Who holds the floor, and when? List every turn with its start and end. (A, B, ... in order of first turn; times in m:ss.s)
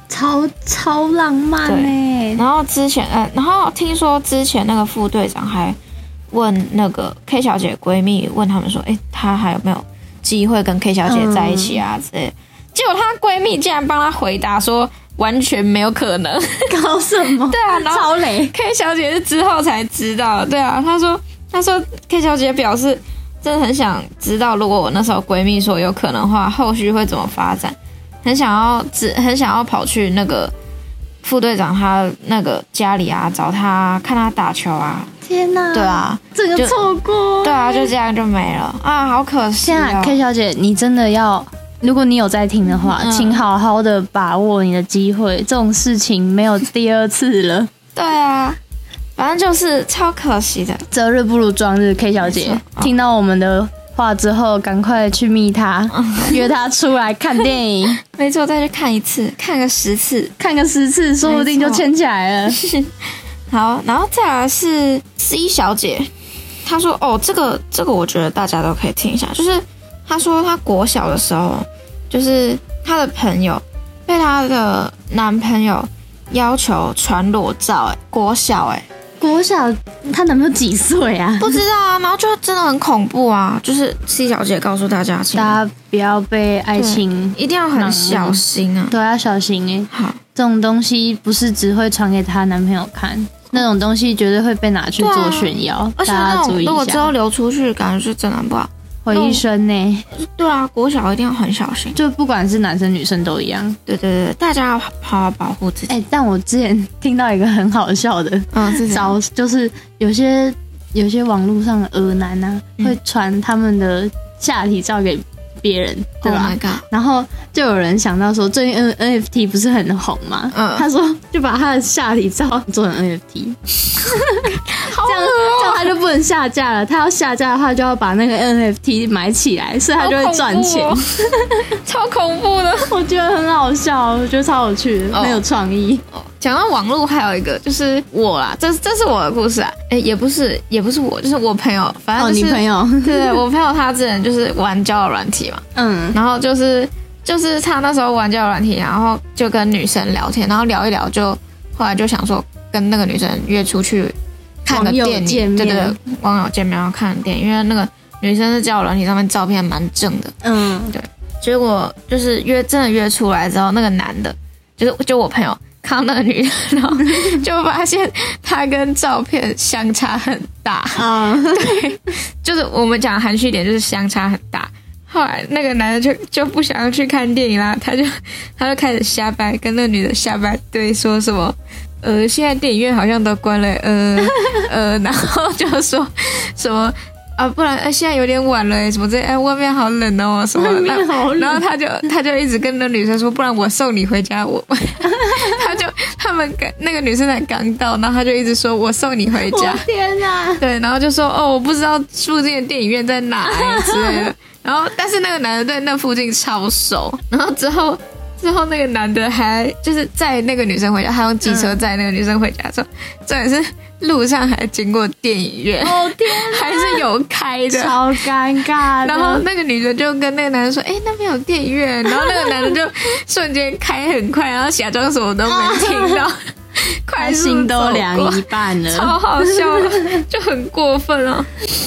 0:00.1-0:02.4 A
0:01.6-0:05.8 B
0:06.3-0:16.7 B
0:11.0-0:11.8 A
0:16.7-0:18.5 A
0:17.5-0:30.5 B
0:31.2-0:35.1 B
0:35.2-0:37.9 A
0:35.7-0:36.8 B
0:37.4-0:40.2 B
0:39.6-0:47.7 A
0:42.8-0:43.4 B
0:47.9-0:48.6 B
0:49.2-0:50.8 B
0:50.9-0:58.0 A
0:52.2-0:52.9 B
0:55.9-0:56.4 B
0:58.0-1:00.3 B
1:00.4-1:02.6 A
1:01.2-1:01.8 B
1:02.6-1:02.9 B
1:03.5-1:06.1 B
1:06.6-1:18.8 B
1:19.2-1:21.6 A
1:21.4-1:25.6 B
1:25.3-1:37.1 A
1:26.8-1:28.9 B
1:29.9-1:30.2 B
1:35.0-1:39.4 B
1:39.0-1:40.1 A
1:40.1-1:42.0 B
1:41.9-1:43.8 A
1:43.9-1:45.9 B
1:45.9-2:11.7 A
1:48.5-1:49.2 B
1:56.2-1:56.8 B
2:00.5-2:00.8 B
2:04.7-2:05.9 B
2:10.0-2:11.0 B
2:11.8-2:12.9 B
2:12.8-2:16.0 A
2:15.1-2:15.4 B
2:16.1-2:40.3 B
2:22.2-2:23.4 A
2:25.8-2:26.2 A
2:34.7-2:36.0 A
2:40.4-2:41.0 A
2:40.9-3:19.8 B
2:51.0-2:51.8 A
3:10.5-3:11.6 A
3:15.1-3:15.5 A
3:19.4-3:20.6 A
3:20.6-3:38.1 B
3:23.4-3:24.3 A
3:31.4-3:31.8 A
3:35.8-3:37.1 A
3:37.7-3:39.4 A
3:39.0-3:51.5 B
3:42.3-3:42.5 A
3:45.4-3:46.2 A
3:47.2-3:50.2 A